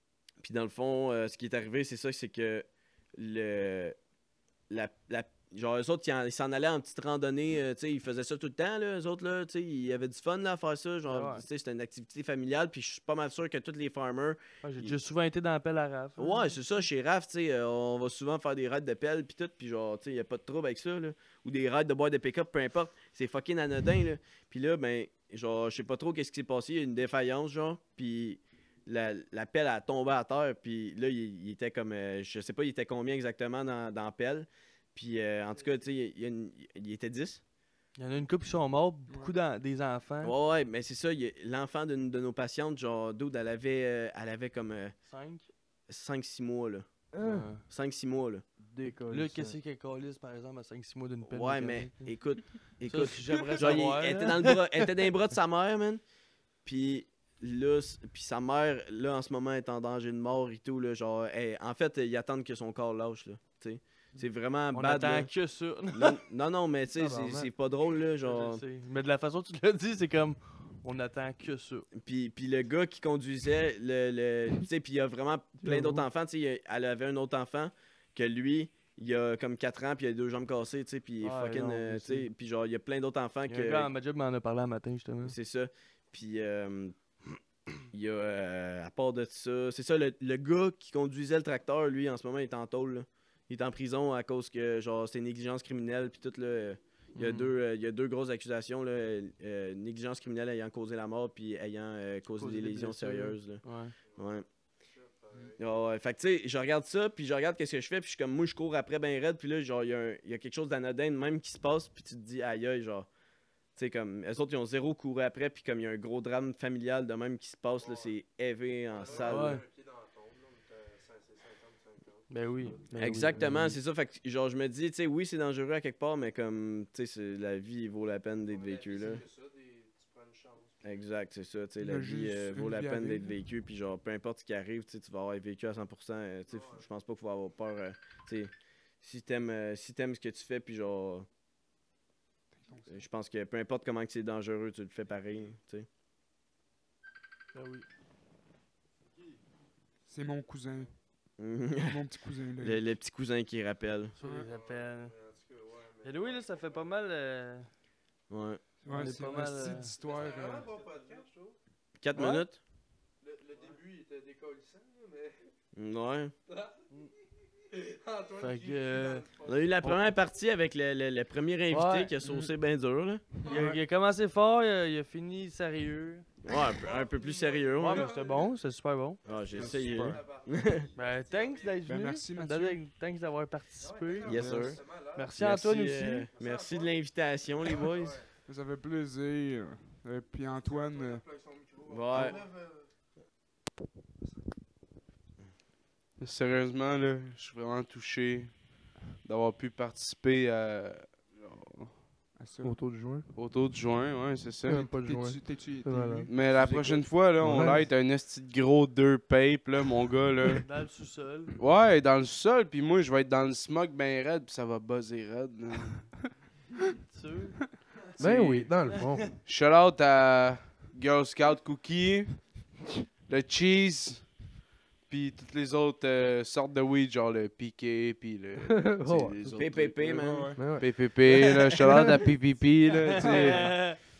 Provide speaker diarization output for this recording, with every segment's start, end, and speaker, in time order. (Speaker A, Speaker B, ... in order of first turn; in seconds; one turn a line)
Speaker A: 0.4-4.0
Speaker A: 4.7-14.9
Speaker B: 11.1-11.4
Speaker B: 14.6-16.4
Speaker A: 16.2-37.4
Speaker B: 38.0-40.4
Speaker A: 40.2-45.0
Speaker B: 45.1-45.5
Speaker A: 45.9-46.9
Speaker C: 47.1-47.6
Speaker B: 47.2-47.6
Speaker A: 47.6-48.5
Speaker C: 48.6-49.6
Speaker B: 49.1-54.9
Speaker A: 51.3-56.0
Speaker A: 56.6-65.3
Speaker B: 64.7-66.2
Speaker A: 65.9-68.6
Speaker C: 67.0-67.5
Speaker B: 68.2-71.9
Speaker A: 72.0-83.9
Speaker C: 75.6-76.0
Speaker B: 81.2-82.3
Speaker B: 83.5-85.4
Speaker A: 85.2-87.0
Speaker A: 87.9-103.6
Speaker B: 97.2-97.5
Speaker B: 102.4-104.0
Speaker A: 104.2-104.5
Speaker C: 104.8-105.6
Speaker A: 105.6-113.1
Speaker A: 113.8-119.6
Speaker C: 117.8-118.1
Speaker C: 119.0-123.6
Speaker B: 119.1-119.7
Speaker B: 122.3-123.7
Speaker A: 123.0-129.2
Speaker C: 128.7-130.7
Speaker A: 130.8-141.3
Speaker D: 131.8-133.4
Speaker D: 142.6-143.0
Speaker A: 142.9-145.9
Speaker B: 147.6-147.9
Speaker D: 150.1-150.9
Speaker A: 151.4-152.0
Speaker D: 151.8-152.8
Speaker A: 152.6-154.2
Speaker B: 154.2-155.1
Speaker D: 154.2-154.5
Speaker C: 154.3-156.8
Speaker B: 156.0-157.7
Speaker A: 158.3-158.6
Speaker D: 158.8-160.7
Speaker B: 158.9-159.9
Speaker C: 158.9-161.6
Speaker A: 162.0-162.6
Speaker B: 162.2-162.4
Speaker C: 163.2-165.4
Speaker A: 165.7-166.3
Speaker C: 167.7-169.8
Speaker B: 168.4-169.3
Speaker A: 169.4-173.3
Speaker B: 171.7-172.1
Speaker C: 173.4-173.8
Speaker B: 173.4-176.3
Speaker A: 176.4-178.1
Speaker C: 176.7-178.5
Speaker B: 177.8-179.2
Speaker A: 179.2-180.9
Speaker C: 179.3-181.8
Speaker D: 179.5-180.2
Speaker B: 181.0-186.3
Speaker D: 181.9-182.8
Speaker C: 183.8-185.3
Speaker A: 184.2-184.8
Speaker D: 184.3-184.8
Speaker A: 185.4-188.2
Speaker C: 186.4-187.0
Speaker C: 187.7-188.3
Speaker D: 188.4-191.4
Speaker C: 191.0-192.9
Speaker A: 191.9-192.5
Speaker E: 196.2-201.9
Speaker D: 202.4-202.8
Speaker C: 202.6-203.3
Speaker E: 203.3-204.9
Speaker C: 204.6-206.5
Speaker D: 205.0-207.7
Speaker E: 206.3-210.7
Speaker C: 207.3-207.9
Speaker B: 210.6-211.6
Speaker E: 211.6-216.1
Speaker B: 217.0-217.6
Speaker E: 218.2-218.8
Speaker C: 218.2-219.4
Speaker B: 218.9-219.2
Speaker E: 219.4-224.3
Speaker E: 225.1-230.0
Speaker C: 228.6-229.7
Speaker A: 229.6-230.6
Speaker D: 230.0-230.6
Speaker C: 230.6-230.9
Speaker E: 230.8-233.7
Speaker A: 231.2-232.1
Speaker C: 231.8-232.2
Speaker B: 233.1-234.0
Speaker D: 233.2-233.6